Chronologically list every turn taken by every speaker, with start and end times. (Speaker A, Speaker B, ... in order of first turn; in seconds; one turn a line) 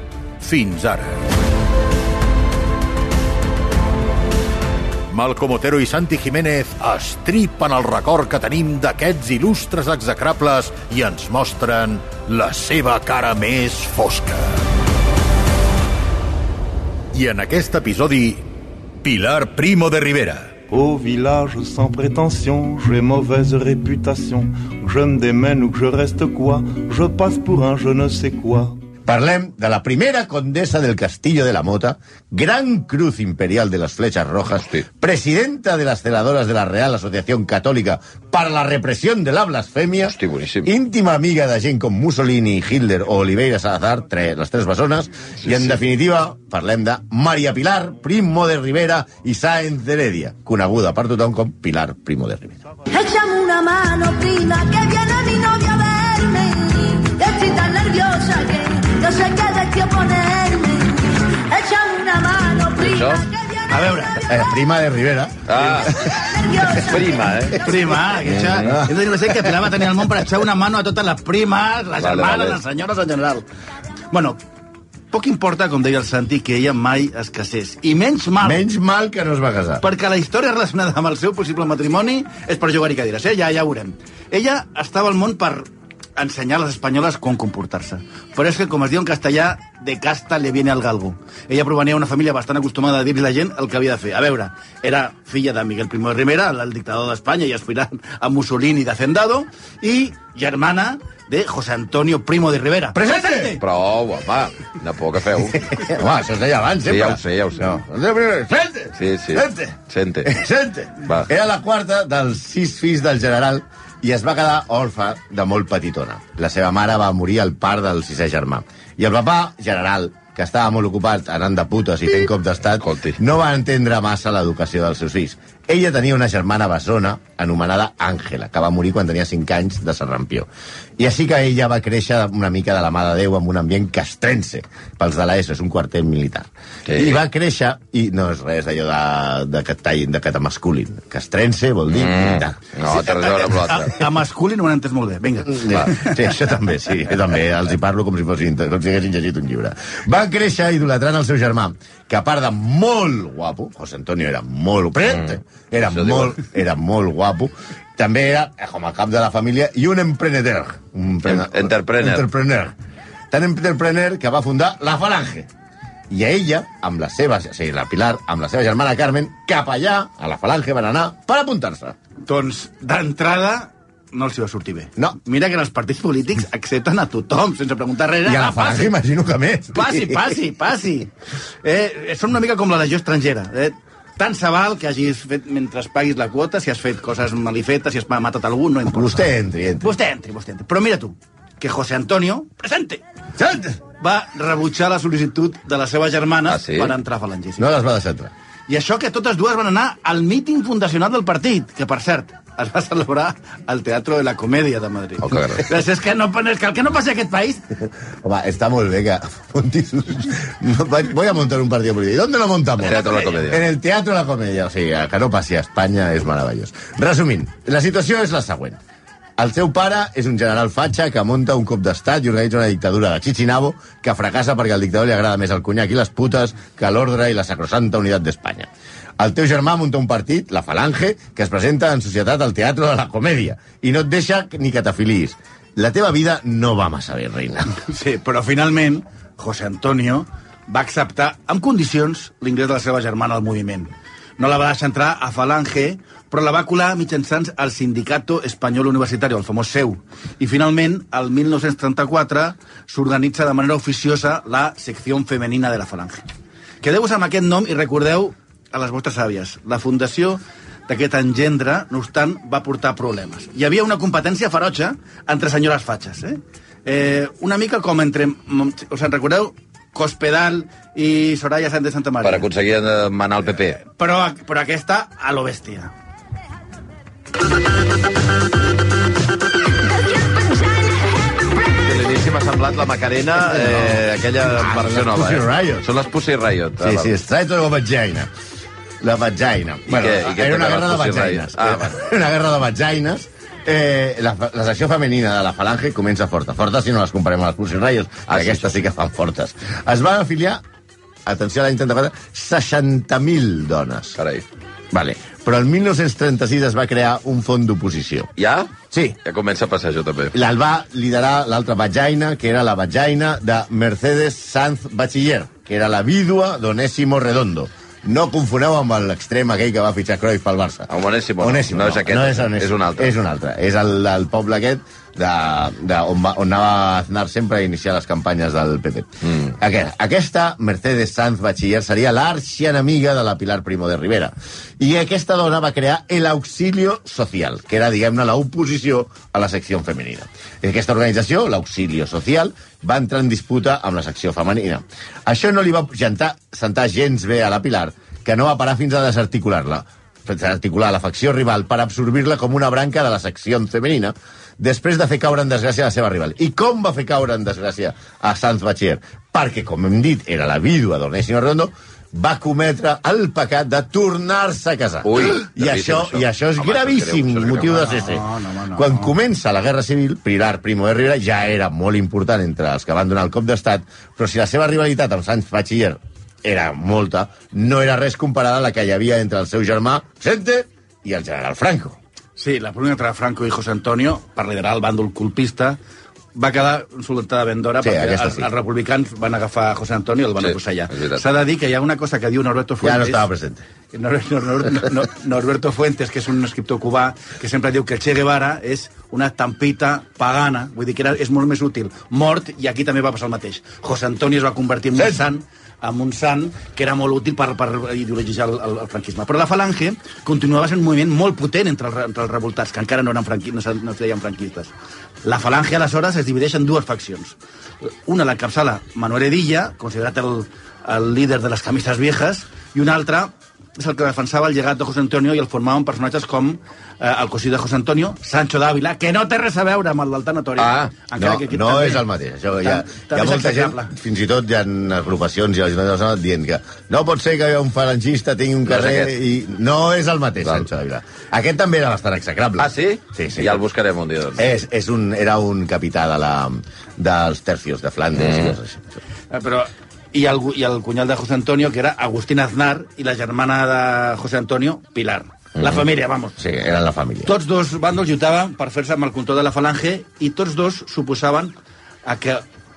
Speaker A: 0.4-1.3
Speaker A: 5.1-14.6
Speaker A: 17.1-18.4
Speaker A: 19.0-20.6
Speaker B: 20.7-28.8
Speaker C: 29.1-52.6
Speaker D: 40.1-40.7
Speaker D: 45.5-45.8
Speaker E: 52.9-64.3
Speaker D: 62.8-63.2
Speaker F: 63.7-64.2
Speaker C: 64.2-66.3
Speaker D: 65.5-66.0
Speaker E: 66.0-68.0
Speaker D: 66.7-67.6
Speaker F: 67.6-73.5
Speaker D: 68.2-68.8
Speaker C: 68.6-69.7
Speaker D: 72.0-72.6
Speaker F: 74.1-74.4
Speaker F: 75.1-78.6
Speaker C: 78.4-79.8
Speaker F: 79.8-103.6
Speaker C: 102.9-103.6
Speaker D: 103.6-105.8
Speaker C: 105.5-142.6
Speaker D: 106.9-107.8
Speaker D: 109.0-110.3
Speaker D: 111.0-111.3
Speaker D: 122.8-123.2
Speaker D: 136.9-137.2
Speaker D: 141.9-144.0
Speaker F: 142.9-146.3
Speaker C: 145.5-162.7
Speaker D: 155.8-156.4
Speaker D: 161.2-162.2
Speaker C: 163.3-165.5
Speaker C: 166.1-172.0
Speaker F: 172.3-178.9
Speaker C: 178.2-180.4
Speaker F: 179.7-181.1
Speaker F: 181.6-189.3
Speaker C: 188.9-189.9
Speaker F: 189.8-193.0
Speaker C: 193.4-193.8
Speaker F: 194.0-197.7
Speaker D: 196.5-196.9
Speaker C: 197.6-198.3
Speaker F: 198.7-207.7
Speaker D: 205.2-205.7
Speaker C: 208.2-218.8
Speaker D: 212.8-213.6
Speaker C: 219.4-237.7
Speaker F: 237.7-256.2
Speaker F: 256.8-272.5
Speaker D: 272.2-273.8
Speaker F: 273.8-275.9
Speaker D: 281.8-287.1
Speaker C: 283.5-285.9
Speaker C: 286.8-288.3
Speaker C: 289.0-300.6
Speaker D: 289.9-291.9
Speaker D: 298.3-298.7
Speaker C: 301.3-304.2
Speaker D: 304.2-304.4
Speaker C: 304.9-308.3
Speaker D: 308.4-308.7
Speaker C: 308.9-309.2
Speaker D: 309.2-310.4
Speaker C: 310.3-382.0
Speaker D: 320.9-323.1
Speaker D: 365.1-367.9
Speaker F: 367.7-369.1
Speaker F: 382.4-385.8
Speaker F: 386.4-393.3
Speaker C: 387.8-388.5
Speaker D: 390.4-391.2
Speaker C: 392.8-393.6
Speaker F: 393.9-414.7
Speaker F: 415.2-417.4
Speaker F: 418.1-432.1
Speaker D: 430.6-430.9
Speaker C: 431.2-443.6
Speaker F: 432.6-433.9
Speaker D: 438.7-439.1
Speaker D: 442.6-444.5
Speaker C: 444.4-449.0
Speaker D: 448.2-448.6
Speaker F: 449.3-456.4
Speaker D: 455.6-455.8
Speaker C: 456.4-457.3
Speaker F: 457.2-462.4